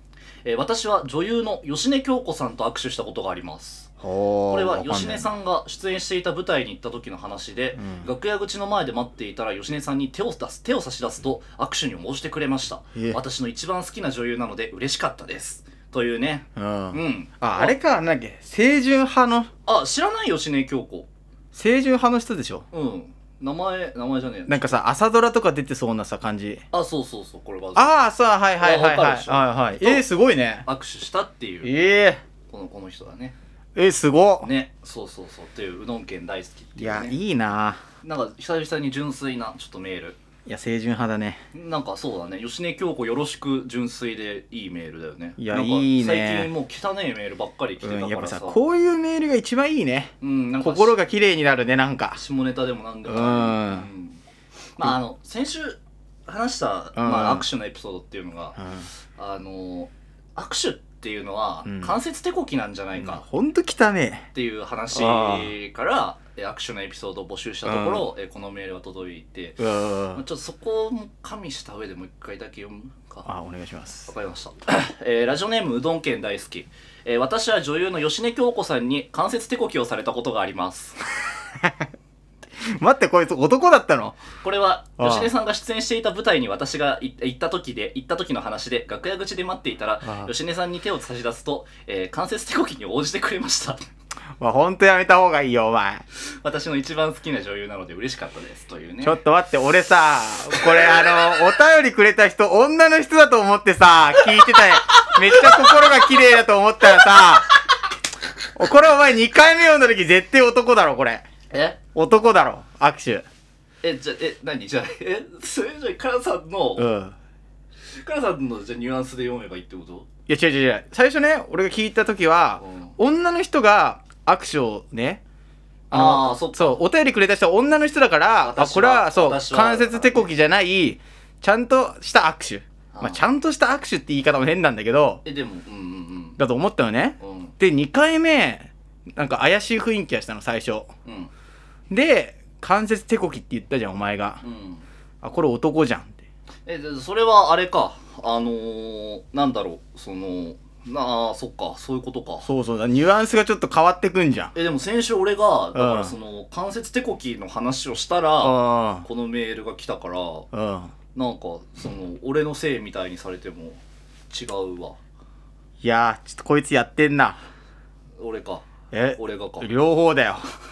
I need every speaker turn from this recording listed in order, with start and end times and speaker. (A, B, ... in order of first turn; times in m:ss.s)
0:00.4-0:03.9 A
0:04.0-0:05.3 B
0:04.5-0:17.8 A
0:07.8-0:08.1 B
0:16.6-0:19.5 B
0:19.6-0:21.1 A
0:21.5-0:22.6 B
0:22.7-0:24.8 A
0:24.5-0:26.6 B
0:26.7-0:27.9 A
0:27.8-0:30.7 B
0:28.6-0:30.0 A
0:30.6-0:31.7 A
0:31.6-0:32.2 B
0:32.5-0:33.4 A
0:33.8-0:34.5 B
0:34.4-0:37.2 A
0:36.8-0:37.8 B
0:38.0-0:40.2 A
0:40.4-0:41.4 B
0:41.5-0:48.6 A
0:45.4-0:46.5 B
0:47.8-0:52.2 B
0:50.2-0:51.0 A
0:52.2-0:54.2 A
0:53.0-0:53.9 B
0:54.8-0:58.6 A
0:57.0-0:57.5 B
0:58.6-0:58.9 B
0:59.2-1:03.2 A
1:01.6-1:02.0 B
1:03.0-1:04.3 B
1:04.3-1:09.6 A
1:04.9-1:05.5 B
1:07.6-1:08.1 B
1:09.6-1:10.2 B
1:10.2-1:13.3 A
1:13.2-1:14.1 B
1:14.1-1:21.0 A
1:22.8-1:24.2 B
1:24.4-1:33.8 A
1:25.0-1:25.3 B
1:30.0-1:30.3 B
1:34.4-1:36.0 B
1:36.4-1:39.2 A
1:39.0-1:47.5 B
1:45.4-1:45.8 A
1:48.6-1:51.2 B
1:51.5-1:51.8 A
1:51.9-1:53.2 B
1:53.8-1:56.9 A
1:56.8-1:57.2 B
1:58.0-2:00.1 A
2:00.3-2:05.2 B
2:02.6-2:03.0 A
2:05.9-2:06.8 A
2:05.9-2:15.2 B
2:08.4-2:10.3 A
2:12.9-2:13.2 A
2:15.2-2:16.4 A
2:16.4-2:20.9 B
2:17.2-2:17.5 A
2:21.1-2:21.3 A
2:21.9-2:24.4 B
2:24.4-2:24.8 A
2:25.2-2:26.2 B
2:26.7-2:32.5 A
2:32.4-2:34.5 B
2:34.5-2:40.5 A
2:35.8-2:36.2 B
2:38.4-2:39.1 B
2:40.5-2:40.9 B
2:41.2-2:45.0 A
2:45.8-2:47.4 B
2:48.2-2:48.6 A
2:48.9-2:50.4 B
2:49.2-2:49.7 A